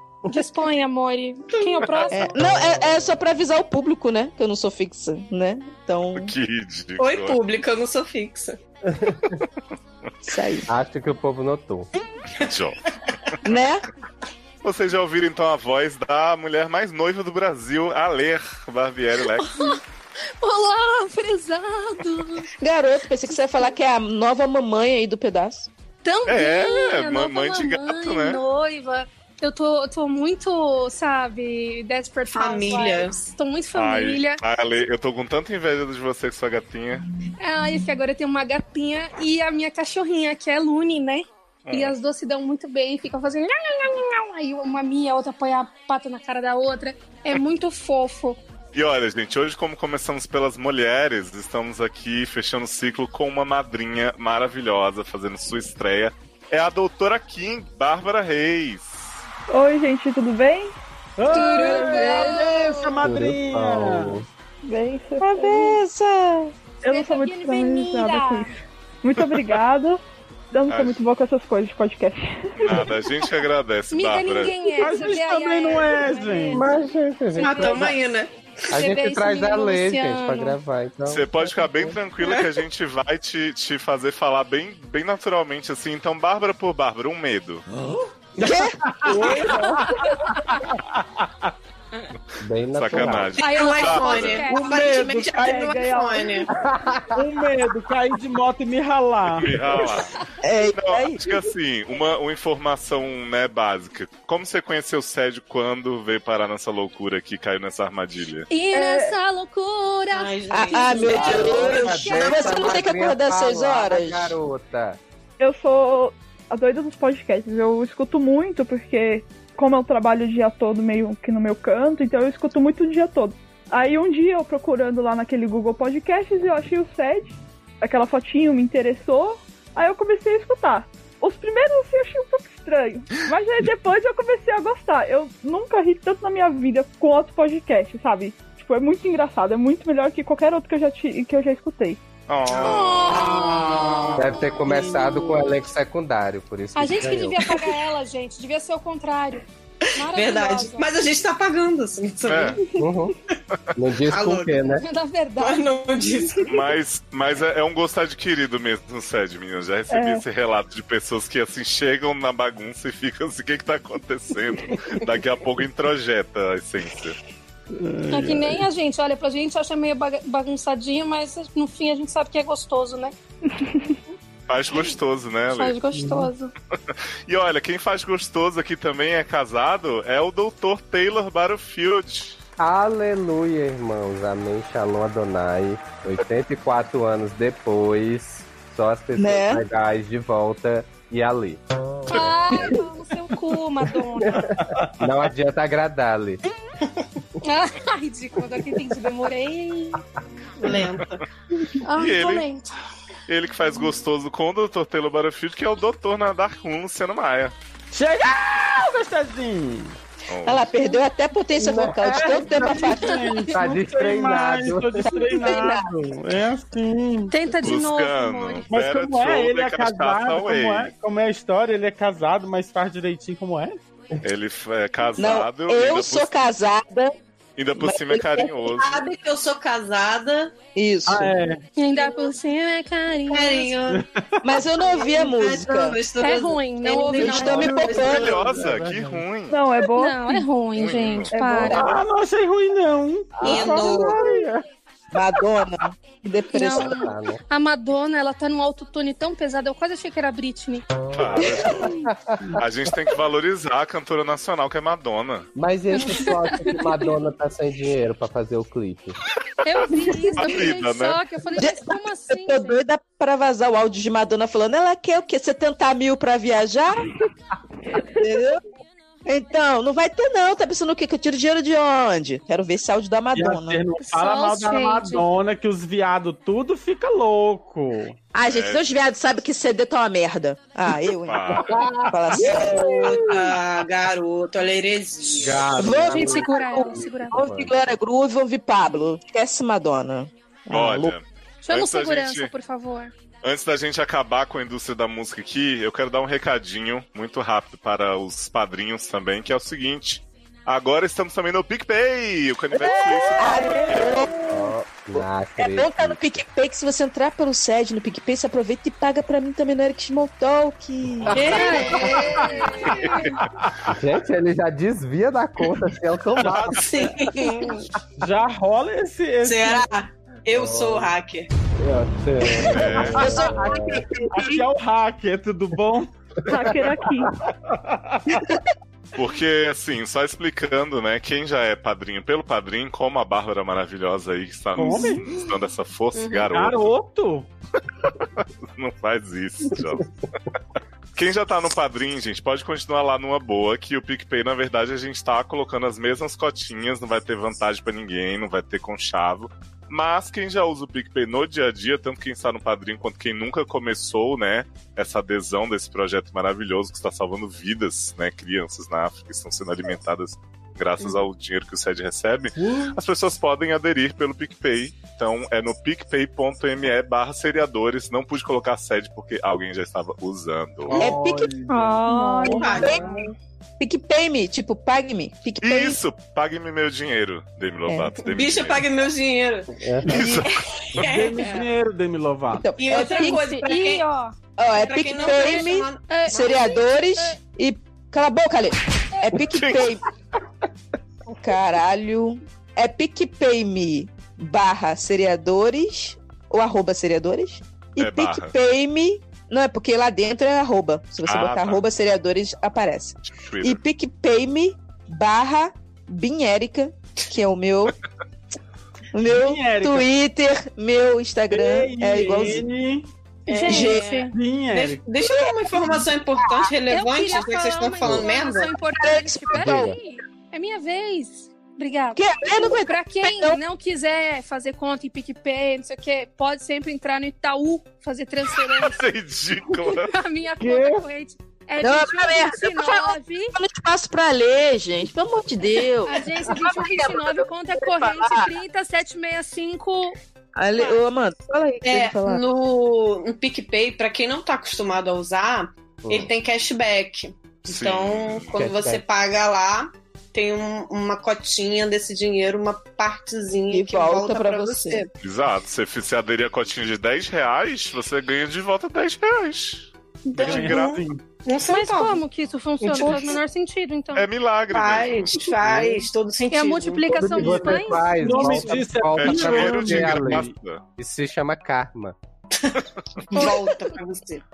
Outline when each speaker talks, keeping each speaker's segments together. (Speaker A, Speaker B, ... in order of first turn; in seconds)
Speaker A: 0.3-2.2, 19.4-19.8, 20.4-22.5, 26.0-34.4, 37.4-48.4, 61.2-63.1, 66.9-68.5, 73.9-76.7, 77.3-78.0, 78.7-80.6, 93.3-94.8, 108.5-111.2, 142.5-143.6, 146.7-149.4, 149.9-150.9, 154.7-155.7, 168.1-173.1, 175.5-176.5, 192.1-194.5, 197.4-200.0, 201.8-202.7, 212.6-213.6, 217.3-218.7, 231.8-233.8, 236.1-237.7, 239.9-241.9, 246.5-250.8, 255.9-257.1, 259.6-262.8, 274.0-275.3, 285.9-287.4, 291.6-293.1, 311.4-313.4, 371.7-372.8, 382.9-384.3, 385.2-387.4, 413.5-414.3, 416.9-429.0, 429.9-433.5, 436.1-440.2, 461.6-464.3, 466.5-468.5, 473.3-473.9
Speaker B: 1.6-1.9, 7.0-8.6, 32.3-33.3, 77.4-78.3, 82.2-82.5, 93.4-96.5, 110.1-112.8, 143.8-144.2, 150.1-152.6, 154.0-154.7, 155.4-156.6, 200.6-201.2, 228.4-230.6, 233.3-234.0, 234.8-238.8, 243.4-244.3, 283.0-285.8, 303.5-304.1, 311.3-312.7, 316.7-317.9, 319.4-321.5, 336.1-336.5, 372.4-373.1, 378.2-380.2, 380.8-381.7, 382.8-384.0, 384.7-386.6, 413.5-418.7, 441.8-455.1, 460.2-462.2, 462.8-463.4, 464.7-467.8, 473.3-474.4
Speaker C: 2.1-6.3, 10.2-10.7, 13.4-13.8, 22.6-25.7, 65.2-66.5, 88.4-88.8, 100.4-101.4, 110.5-114.3, 189.2-189.6, 210.4-213.4, 215.0-215.9, 225.2-227.1, 227.8-228.5, 230.7-231.3, 234.4-236.0, 237.1-238.3, 241.6-242.0, 245.1-247.0, 261.5-267.1, 267.9-268.6, 269.2-273.8, 278.3-283.2, 285.8-291.1, 302.8-304.3, 305.2-312.1, 322.9-324.6, 328.3-328.6, 370.9-371.5, 373.8-376.0, 377.9-378.1, 380.1-380.5, 382.5-383.6, 384.6-390.0, 391.3-407.9, 409.1-412.6, 413.6-414.1, 415.2-416.7, 418.9-420.0, 422.1-423.6, 431.8-438.5, 440.5-442.4, 453.7-455.0
Speaker D: 6.2-7.4, 12.4-12.8, 14.6-19.5, 26.2-28.4, 33.7-37.0, 41.6-41.9, 48.7-59.2, 70.7-71.0, 72.6-74.6, 81.1-87.6, 92.7-94.5, 99.4-100.1, 100.7-108.5, 142.3-143.2, 152.2-152.6, 156.5-167.2, 174.5-175.8, 176.9-182.4, 201.9-202.4, 203.3-207.5, 210.3-210.7, 217.6-220.9, 224.2-226.3, 227.6-229.0, 238.0-239.6, 240.7-241.3, 251.1-252.0, 252.6-255.5, 260.1-261.2, 278.4-278.9, 281.2-281.8, 290.7-292.5, 293.4-304.2, 322.6-323.3, 329.1-336.9, 338.4-340.1, 341.1-371.1, 375.6-378.9, 380.1-381.1, 389.4-389.8, 398.0-398.5, 401.2-401.8, 403.3-403.8, 428.6-430.1, 447.7-448.6, 455.2-461.0, 464.1-465.5, 469.1-470.8
Speaker E: 8.9-9.3, 10.7-11.9, 63.0-64.2, 76.5-77.9, 78.7-82.0, 92.4-93.3, 96.5-97.2, 111.1-115.0, 144.2-147.6, 152.8-153.1, 153.8-154.8, 182.6-192.6, 194.3-196.4, 211.6-212.2, 213.5-215.2, 243.3-244.6, 246.8-247.4, 251.2-252.5, 255.6-259.1, 281.6-283.1, 285.2-287.7, 304.5-306.2, 313.9-316.8, 320.5-321.1, 321.8-324.0, 379.8-380.1, 419.6-419.9, 448.5-449.0, 467.2-472.1
Speaker F: 59.5-60.7, 64.6-65.8, 66.8-70.0, 70.5-73.0, 95.4-96.3, 108.7-109.1, 115.4-142.0, 159.9-160.2, 173.6-174.0, 239.5-240.4, 326.5-327.3, 372.1-373.1
Speaker G: 61.2-64.1, 74.7-76.6, 88.4-91.5, 94.4-95.7, 97.1-100.0, 144.7-145.4, 167.7-168.7, 175.9-176.3, 194.6-195.1, 207.9-209.9, 211.8-217.3, 218.7-223.8, 231.1-231.6, 233.9-234.4, 237.2-239.2, 241.4-244.2, 273.3-278.1, 282.4-283.3, 313.6-313.9, 316.4-316.9, 318.2-319.9, 322.9-326.1, 327.6-328.2, 334.7-335.4, 336.5-337.5, 362.6-362.9, 370.9-371.9, 380.9-382.6, 409.3-410.1, 411.5-413.1, 414.3-415.1, 430.6-431.1, 460.4-461.2, 468.0-470.5